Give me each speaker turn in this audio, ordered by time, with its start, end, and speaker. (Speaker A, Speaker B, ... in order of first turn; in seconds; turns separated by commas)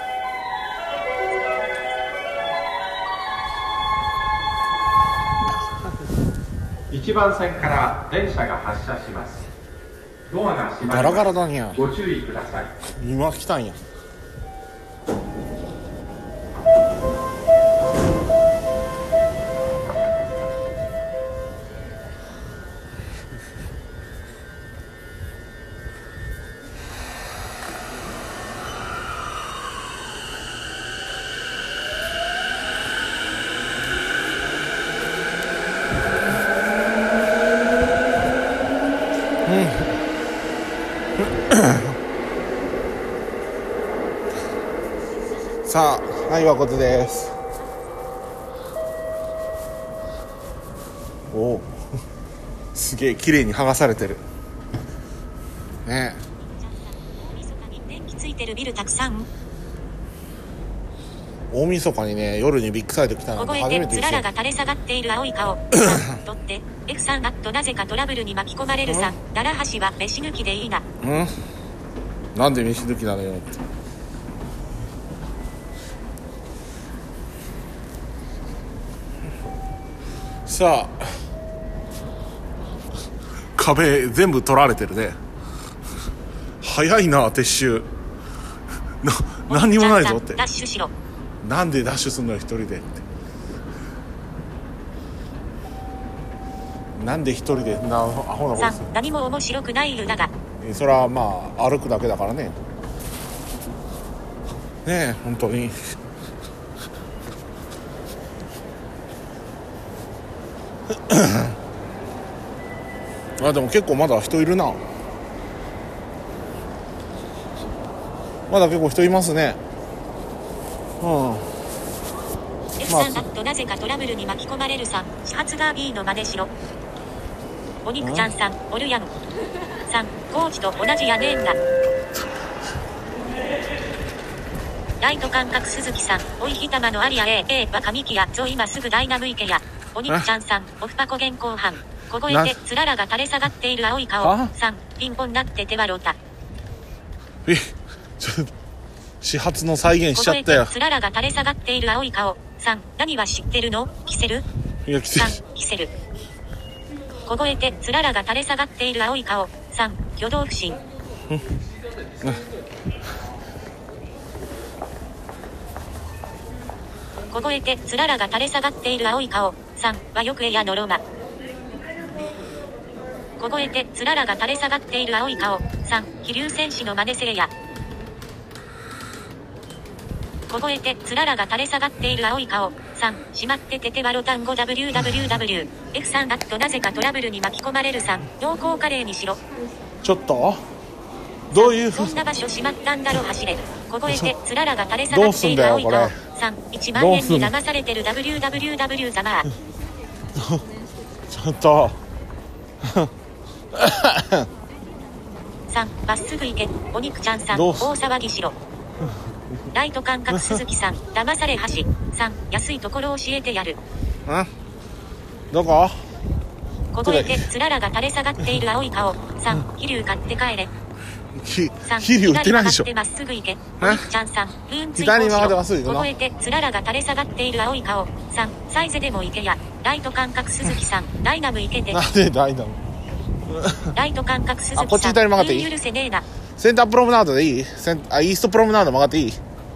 Speaker A: 1.5-1.8, Speaker B: 6.9-9.5, Speaker B: 10.3-12.7, Speaker C: 10.9-11.8, Speaker C: 12.9-13.8, Speaker C: 39.4-40.0, Speaker C: 41.2-42.0, Speaker C: 45.6-47.4, Speaker C: 51.3-51.8, Speaker C: 52.7-54.2, Speaker C: 55.9-56.2, Speaker A: 56.5-59.3, Speaker C: 61.5-64.3, Speaker A: 63.4-70.9, Speaker C: 65.7-66.2, Speaker C: 68.9-69.2, Speaker C: 71.0-71.3, Speaker C: 72.3-73.6, Speaker C: 80.5-81.2, Speaker C: 83.5-85.2, Speaker C: 86.6-87.9, Speaker C: 89.0-90.4, Speaker A: 89.5-90.9, Speaker C: 91.4-93.0, Speaker C: 97.0-98.9, Speaker A: 98.6-100.3, Speaker C: 100.6-102.6, Speaker C: 104.8-106.0, Speaker C: 110.9-111.6, Speaker C: 113.4-114.8, Speaker C: 118.5-119.6, Speaker C: 121.0-121.5, Speaker A: 122.8-126.5, Speaker C: 122.9-123.2, Speaker A: 127.8-129.1, Speaker C: 128.0-128.3, Speaker A: 129.9-131.6, Speaker A: 135.0-146.2, Speaker C: 142.3-142.6, Speaker C: 144.2-144.5, Speaker C: 147.4-148.5, Speaker C: 149.2-150.7, Speaker A: 150.2-154.4, Speaker C: 154.8-155.4, Speaker A: 155.2-155.9, Speaker A: 157.3-160.8, Speaker A: 167.3-171.0, Speaker A: 173.4-177.5, Speaker A: 180.5-189.4, Speaker C: 190.0-190.7, Speaker C: 191.5-192.2, Speaker A: 191.5-199.5, Speaker C: 195.1-196.2, Speaker C: 196.9-197.6, Speaker C: 200.3-200.6, Speaker C: 201.3-202.0, Speaker C: 202.8-203.1, Speaker C: 203.7-204.5, Speaker A: 205.7-208.6, Speaker C: 207.5-207.9, Speaker A: 209.7-213.8, Speaker C: 210.3-210.6, Speaker C: 215.5-216.0, Speaker A: 216.9-220.7, Speaker C: 217.0-217.5, Speaker C: 221.3-222.9, Speaker A: 221.8-232.0, Speaker C: 223.8-224.1, Speaker C: 224.9-226.1, Speaker C: 231.9-232.8, Speaker C: 233.5-233.9, Speaker A: 233.9-236.2, Speaker C: 234.8-235.7, Speaker C: 236.6-239.4